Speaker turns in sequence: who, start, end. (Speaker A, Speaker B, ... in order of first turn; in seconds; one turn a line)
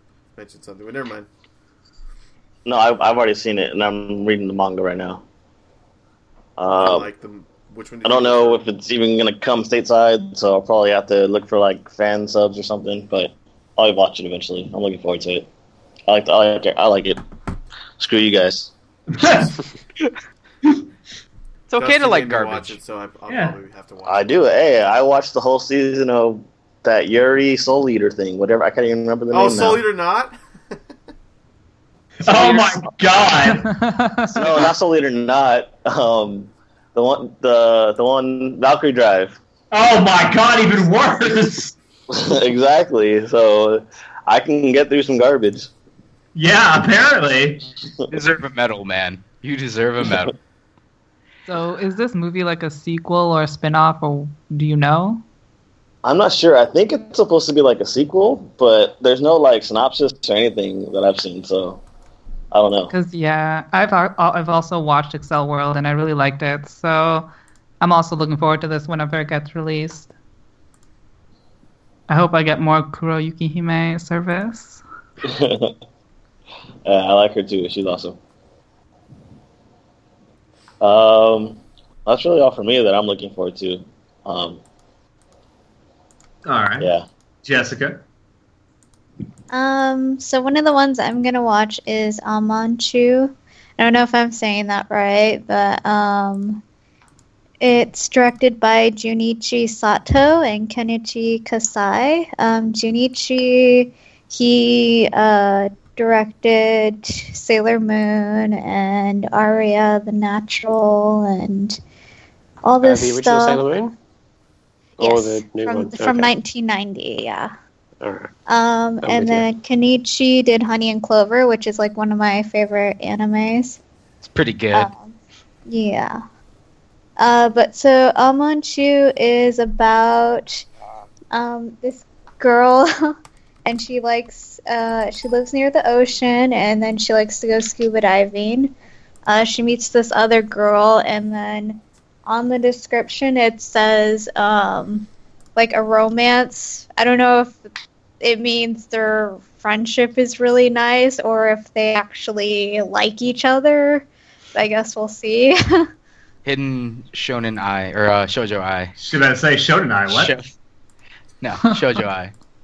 Speaker A: 0.3-1.3
Speaker B: 2.6-5.2
Speaker B: 6.6-7.1
Speaker A: 6.8-8.6
Speaker B: 8.0-15.5
Speaker B: 16.1-17.2
Speaker B: 18.0-18.7
Speaker C: 19.1-19.5
Speaker D: 21.7-22.8
Speaker A: 21.8-24.4
Speaker C: 23.3-23.6
Speaker B: 24.1-29.8
Speaker A: 29.3-30.3
Speaker C: 32.2-33.7
Speaker B: 32.3-32.7
Speaker E: 33.6-34.4
Speaker B: 34.3-39.4
Speaker C: 34.4-34.7
Speaker C: 39.7-41.7
Speaker B: 42.1-45.7
Speaker C: 46.3-47.6
Speaker D: 48.1-50.3
Speaker E: 51.5-55.2
Speaker B: 56.0-61.8
Speaker B: 62.5-62.9
Speaker E: 62.9-67.3
Speaker E: 67.8-70.1
Speaker E: 72.1-74.8
Speaker B: 75.3-75.7
Speaker B: 76.8-78.2
Speaker B: 80.8-84.6
Speaker C: 86.5-86.9
Speaker B: 86.8-87.0
Speaker C: 87.4-88.0
Speaker F: 89.5-96.6
Speaker F: 97.6-111.8
Speaker F: 112.6-113.6
Speaker G: 112.8-113.9
Speaker G: 115.0-116.3
Speaker F: 115.0-117.5
Speaker G: 118.0-118.3
Speaker F: 118.5-123.8
Speaker G: 119.0-119.5
Speaker D: 124.2-124.9
Speaker F: 124.7-126.2
Speaker F: 127.2-130.7
Speaker F: 131.3-133.1
Speaker F: 133.7-138.7
Speaker F: 139.3-155.8
Speaker D: 156.4-158.9
Speaker C: 159.0-160.3
Speaker D: 160.1-160.5
Speaker D: 161.4-162.3